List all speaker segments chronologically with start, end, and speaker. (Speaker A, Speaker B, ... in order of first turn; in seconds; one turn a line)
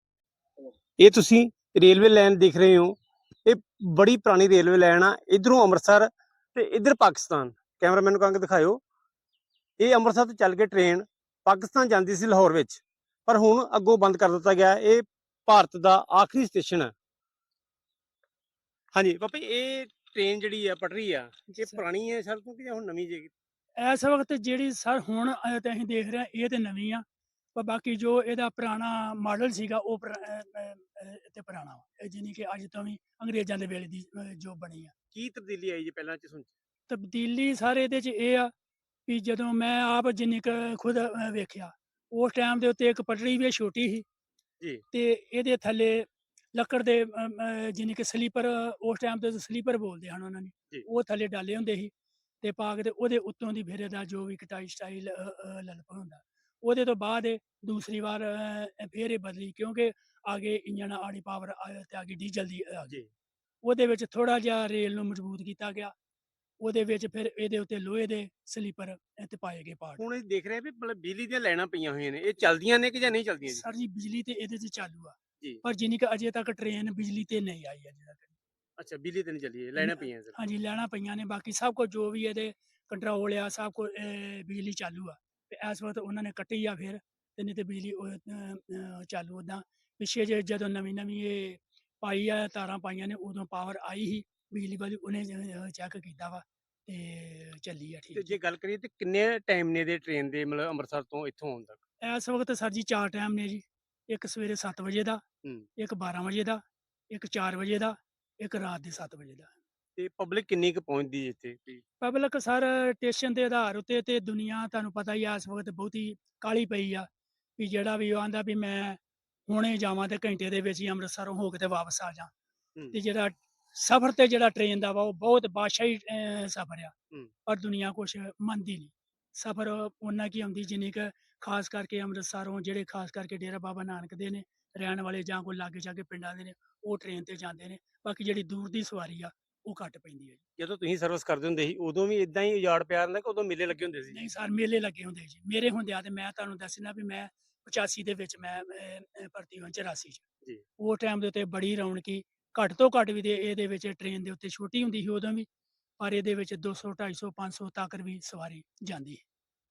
Speaker A: 1.0-8.8
Speaker A: 9.8-16.9
Speaker A: 18.9-23.3
Speaker B: 23.8-34.9
Speaker A: 35.1-36.5
Speaker B: 36.9-38.5
Speaker B: 39.1-44.1
Speaker B: 44.9-63.0
Speaker B: 63.6-65.9
Speaker B: 66.6-70.0
Speaker A: 70.0-73.7
Speaker B: 73.4-78.4
Speaker A: 78.8-80.3
Speaker B: 79.8-98.4
Speaker A: 98.2-101.8
Speaker B: 102.0-105.2
Speaker B: 105.8-109.5
Speaker A: 110.0-111.8
Speaker B: 112.0-122.3
Speaker B: 122.9-126.9
Speaker B: 127.5-140.4
Speaker A: 140.6-144.3
Speaker B: 144.1-150.2
Speaker B: 150.8-155.5
Speaker B: 156.0-159.2